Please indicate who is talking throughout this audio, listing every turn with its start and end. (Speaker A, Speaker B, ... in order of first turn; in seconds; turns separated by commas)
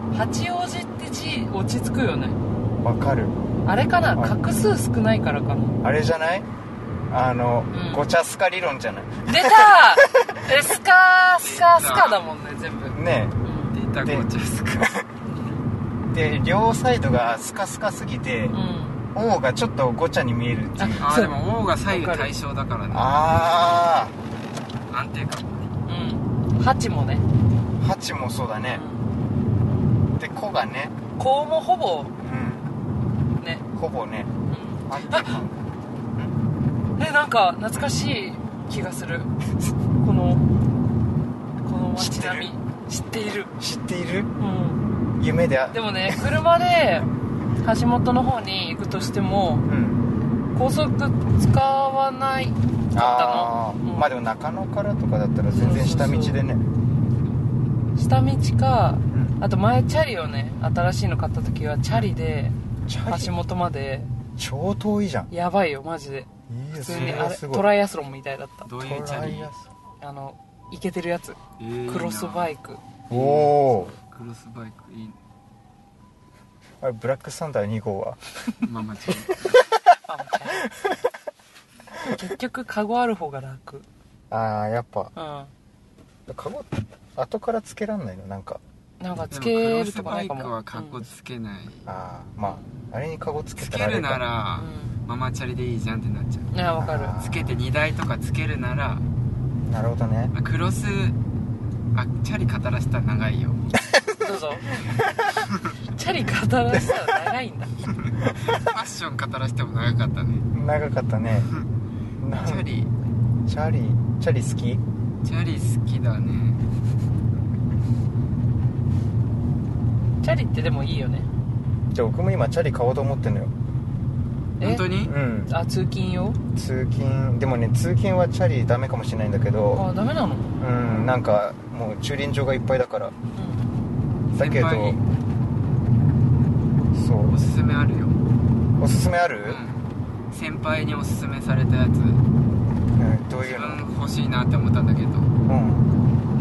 Speaker A: 0.1-2.4, Speaker B: 2.8-3.4, Speaker A: 3.6-5.8, Speaker B: 4.1-4.4, Speaker B: 5.8-6.5, Speaker B: 7.1-10.6, Speaker A: 7.7-8.1, Speaker A: 9.3-13.7, Speaker C: 11.4-12.2, Speaker B: 12.9-13.4, Speaker C: 13.7-15.0, Speaker B: 14.0-15.0, Speaker A: 15.3-15.6, Speaker B: 16.1-18.6, Speaker A: 18.5-19.0, Speaker B: 19.1-21.1, Speaker A: 20.8-21.4, Speaker C: 21.0-23.2, Speaker A: 21.9-22.3, Speaker B: 22.9-24.1, Speaker C: 24.9-25.7, Speaker A: 25.9-27.2, Speaker B: 27.8-28.8, Speaker A: 28.7-29.0, Speaker B: 30.2-30.9, Speaker A: 31.2-32.1, Speaker B: 32.2-32.7, Speaker B: 33.7-34.3, Speaker A: 34.5-35.4, Speaker B: 34.9-36.3, Speaker A: 37.0-39.3, Speaker A: 40.0-40.4, Speaker A: 41.6-43.5, Speaker B: 42.0-42.5, Speaker B: 43.6-44.3, Speaker A: 44.4-44.8, Speaker B: 45.2-46.2, Speaker A: 45.7-47.1, Speaker A: 47.6-49.7, Speaker B: 49.7-50.0, Speaker A: 50.5-54.1, Speaker B: 52.9-56.6, Speaker A: 55.5-56.4, Speaker A: 58.0-62.5, Speaker B: 59.1-59.4, Speaker B: 62.9-63.3, Speaker A: 63.0-64.1, Speaker B: 64.4-65.3, Speaker A: 65.3-68.7, Speaker B: 66.5-67.7, Speaker C: 66.9-67.2, Speaker C: 68.6-69.5, Speaker B: 68.8-69.6, Speaker A: 70.0-72.8, Speaker C: 71.6-72.5, Speaker B: 73.1-73.9, Speaker C: 73.1-75.2, Speaker B: 76.8-78.2, Speaker C: 78.6-79.6, Speaker B: 79.4-80.0, Speaker A: 80.1-80.6, Speaker B: 80.6-81.0, Speaker A: 82.1-83.8, Speaker B: 84.3-85.1, Speaker A: 85.1-85.5, Speaker B: 86.3-88.6, Speaker A: 89.0-91.0, Speaker C: 89.3-91.9, Speaker B: 91.8-94.2, Speaker C: 93.6-96.5, Speaker A: 94.5-94.9, Speaker A: 96.5-97.1, Speaker B: 96.8-97.6, Speaker C: 97.2-99.0, Speaker B: 99.7-100.3, Speaker C: 100.3-101.1, Speaker C: 101.9-103.6, Speaker B: 103.8-104.2, Speaker A: 104.2-104.6, Speaker B: 104.7-105.2, Speaker A: 106.0-107.7, Speaker C: 108.0-110.4, Speaker B: 110.5-111.5, Speaker B: 112.2-112.7, Speaker C: 112.3-112.9, Speaker B: 113.5-114.8, Speaker C: 115.2-116.6, Speaker A: 120.2-121.3, Speaker B: 121.9-123.5, Speaker A: 124.6-124.9, Speaker C: 124.6-125.1, Speaker B: 125.0-125.5, Speaker A: 125.5-126.4, Speaker B: 126.5-129.8, Speaker A: 129.7-130.5, Speaker B: 130.6-133.1, Speaker A: 133.3-133.7, Speaker B: 134.3-135.0, Speaker C: 134.3-135.0, Speaker B: 136.9-137.4, Speaker C: 137.3-138.2, Speaker B: 138.8-139.6, Speaker C: 139.4-142.2, Speaker B: 142.9-143.8, Speaker C: 143.4-145.3, Speaker B: 145.4-145.9